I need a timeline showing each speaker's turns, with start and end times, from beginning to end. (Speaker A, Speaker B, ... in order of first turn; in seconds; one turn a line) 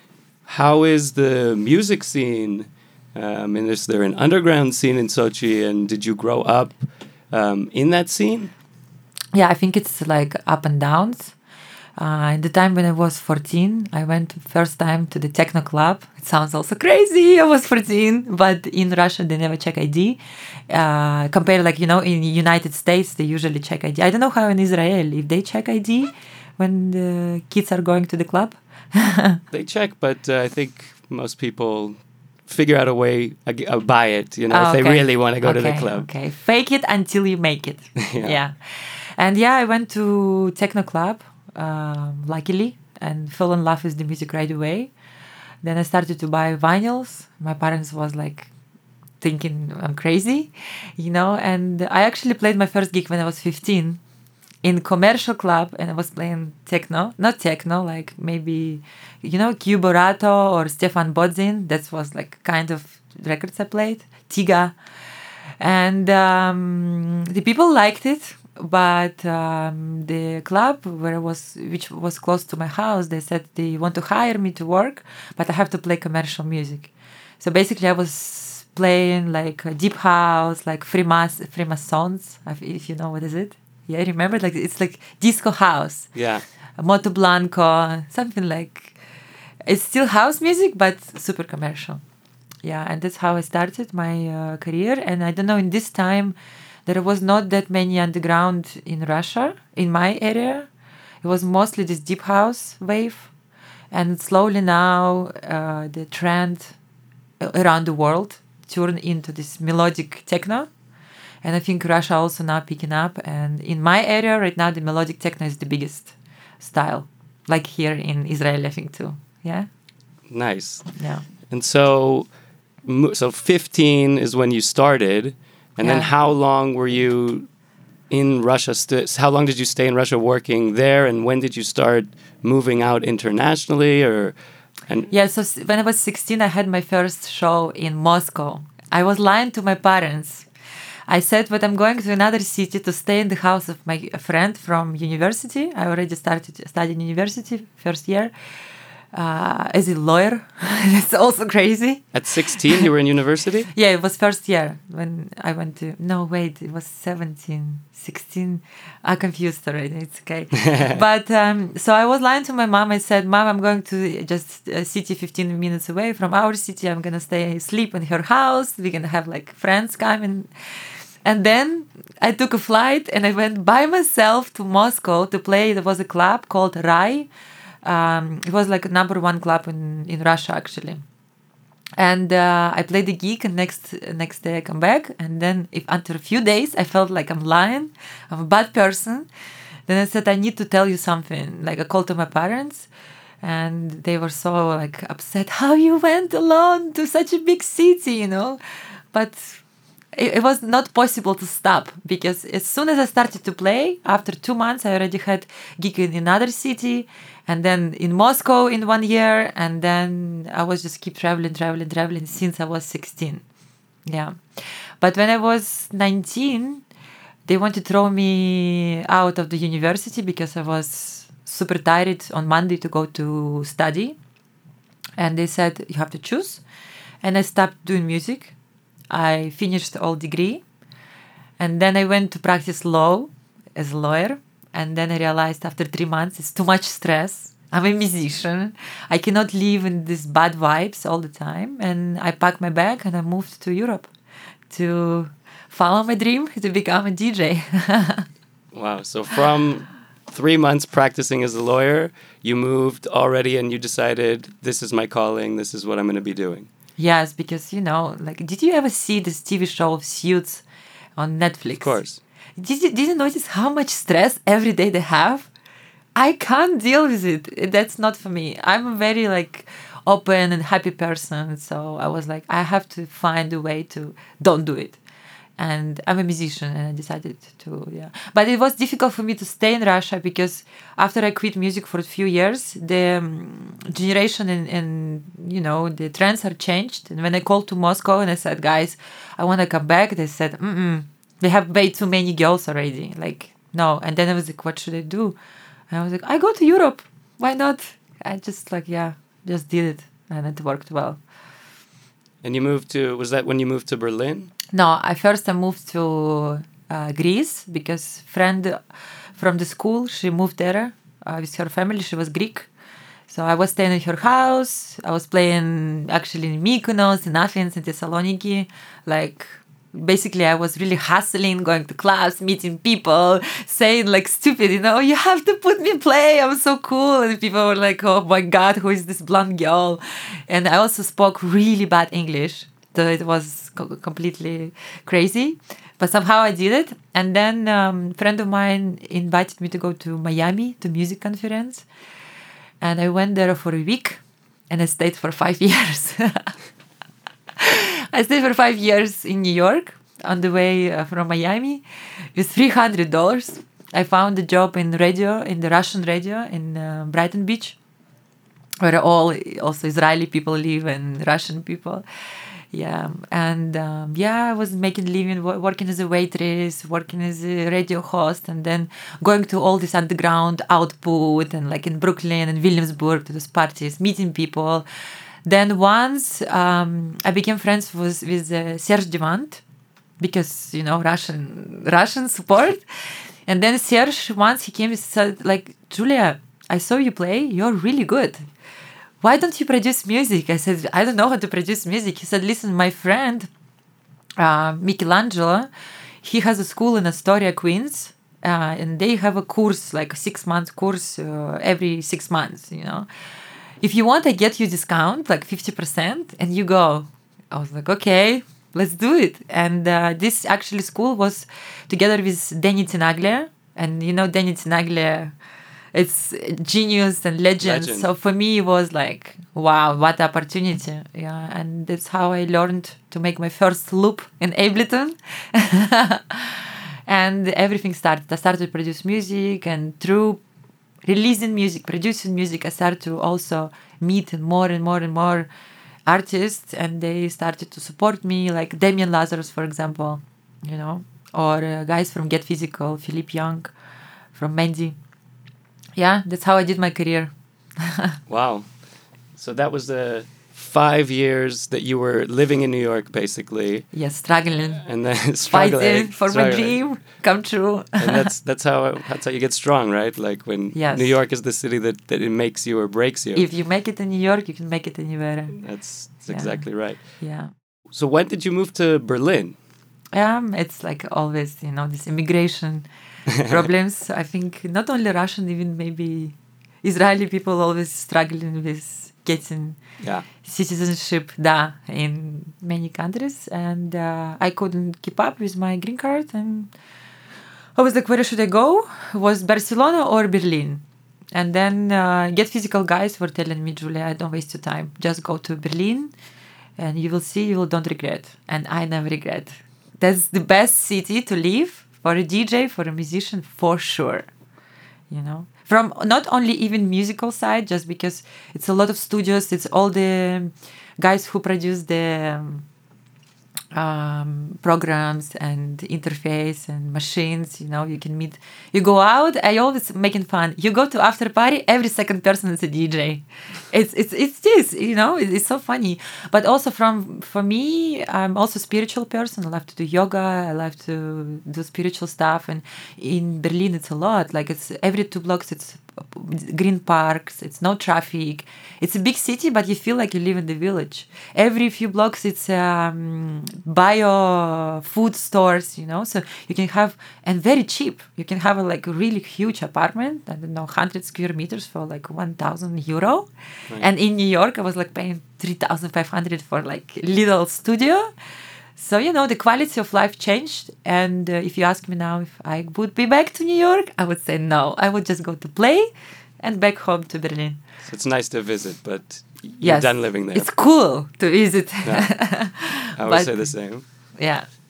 Speaker A: 0.5-8.5
Speaker B: 9.3-11.3
Speaker B: 12.0-29.4
Speaker A: 29.5-36.1
Speaker B: 34.5-44.9
Speaker A: 38.0-38.4
Speaker B: 45.6-48.5
Speaker B: 49.2-54.0
Speaker B: 54.6-64.7
Speaker B: 65.6-86.1
Speaker A: 86.1-86.4
Speaker B: 86.8-89.0
Speaker B: 89.6-92.0
Speaker B: 92.6-96.3
Speaker B: 96.8-100.7
Speaker B: 101.2-103.3
Speaker B: 103.9-106.8
Speaker B: 107.4-110.7
Speaker B: 111.4-119.7
Speaker A: 120.3-120.9
Speaker B: 121.0-121.2
Speaker A: 121.5-122.3
Speaker A: 122.8-127.5
Speaker B: 125.8-126.1
Speaker A: 128.1-134.3
Speaker B: 135.1-140.5
Speaker B: 141.1-148.3
Speaker B: 149.1-152.1
Speaker A: 152.1-153.7
Speaker B: 153.7-170.5
Speaker B: 171.2-177.3
Speaker B: 177.8-181.0
Speaker B: 182.0-189.3
Speaker B: 189.9-192.9
Speaker B: 193.4-198.6
Speaker B: 199.1-199.6
Speaker B: 200.1-213.4
Speaker B: 214.1-216.8
Speaker B: 217.4-224.2
Speaker B: 225.2-226.6
Speaker B: 227.2-228.5
Speaker B: 229.1-230.6
Speaker B: 231.6-244.1
Speaker B: 244.7-248.2
Speaker A: 248.7-256.7
Speaker B: 257.0-260.6
Speaker B: 261.2-262.0
Speaker A: 261.8-262.2
Speaker B: 262.6-265.5
Speaker B: 266.1-275.0
Speaker B: 275.6-295.4
Speaker B: 295.9-301.2
Speaker A: 302.4-304.5
Speaker B: 304.7-308.8
Speaker B: 309.4-312.7
Speaker B: 313.3-341.8
Speaker B: 342.8-346.5
Speaker B: 347.6-351.8
Speaker B: 352.3-357.8
Speaker B: 358.8-362.0
Speaker B: 362.7-374.8
Speaker B: 375.4-379.6
Speaker B: 380.2-382.8
Speaker B: 383.4-388.4
Speaker B: 389.2-393.5
Speaker B: 394.4-395.7
Speaker B: 396.2-403.1
Speaker B: 403.8-415.3
Speaker B: 415.9-430.4
Speaker A: 417.6-418.1
Speaker B: 431.0-435.5
Speaker B: 436.1-443.7
Speaker B: 444.3-445.0
Speaker B: 446.0-448.2
Speaker A: 448.3-448.7
Speaker A: 449.4-453.9
Speaker B: 453.9-454.8
Speaker A: 454.8-456.9
Speaker B: 455.5-458.2
Speaker A: 458.0-463.5
Speaker B: 460.7-461.2
Speaker B: 463.3-465.6
Speaker A: 465.6-467.0
Speaker B: 466.3-467.5
Speaker A: 467.9-469.5
Speaker B: 470.1-472.9
Speaker B: 473.4-479.8
Speaker A: 480.0-480.3
Speaker B: 480.4-486.7
Speaker B: 487.8-496.1
Speaker B: 496.8-504.3
Speaker B: 505.1-512.6
Speaker B: 513.7-558.1
Speaker B: 558.8-567.6
Speaker A: 567.8-570.5
Speaker B: 569.6-573.5
Speaker A: 571.8-572.1
Speaker A: 573.0-573.8
Speaker B: 574.2-574.5